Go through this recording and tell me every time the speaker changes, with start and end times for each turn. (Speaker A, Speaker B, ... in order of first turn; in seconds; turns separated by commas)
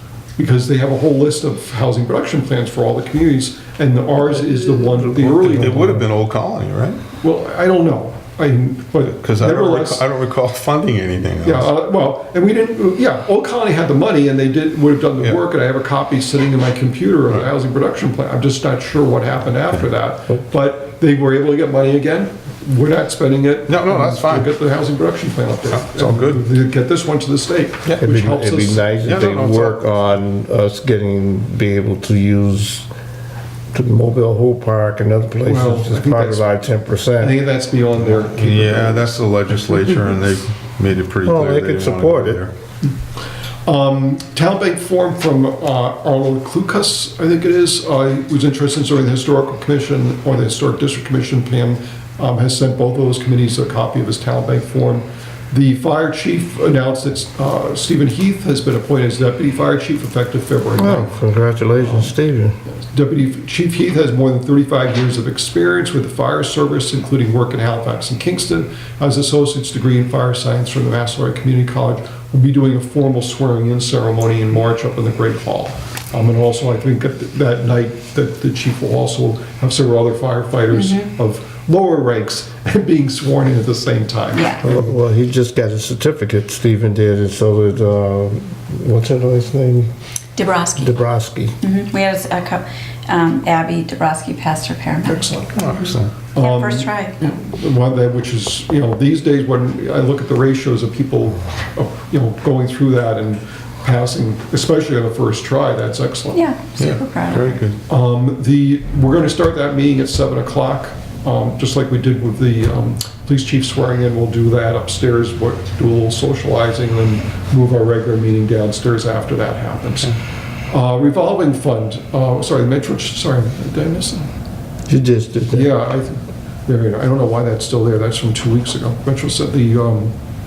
Speaker A: 0.4-6.1, Speaker B: 4.8-5.7, Speaker C: 5.1-7.0, Speaker A: 7.2-10.1, Speaker C: 9.1-11.7, Speaker A: 11.4-29.2, Speaker C: 23.7-24.5, Speaker C: 25.7-26.4, Speaker B: 28.0-32.9, Speaker C: 29.0-29.9, Speaker B: 33.7-37.4, Speaker A: 35.5-36.5, Speaker A: 37.2-39.2, Speaker C: 38.0-42.5, Speaker B: 41.2-42.4, Speaker A: 43.6-61.1, Speaker B: 60.8-62.6, Speaker A: 61.8-62.1, Speaker A: 62.9-84.8, Speaker D: 80.7-81.1, Speaker D: 84.3-84.7, Speaker B: 84.6-89.9, Speaker D: 90.4-91.0, Speaker B: 90.8-91.5, Speaker D: 91.6-95.3, Speaker A: 95.0-106.5, Speaker C: 95.5-96.2, Speaker D: 96.4-97.3, Speaker D: 106.3-107.6, Speaker C: 106.8-107.8, Speaker A: 107.9-120.2, Speaker A: 120.7-124.3, Speaker B: 124.9-125.7, Speaker A: 125.5-130.1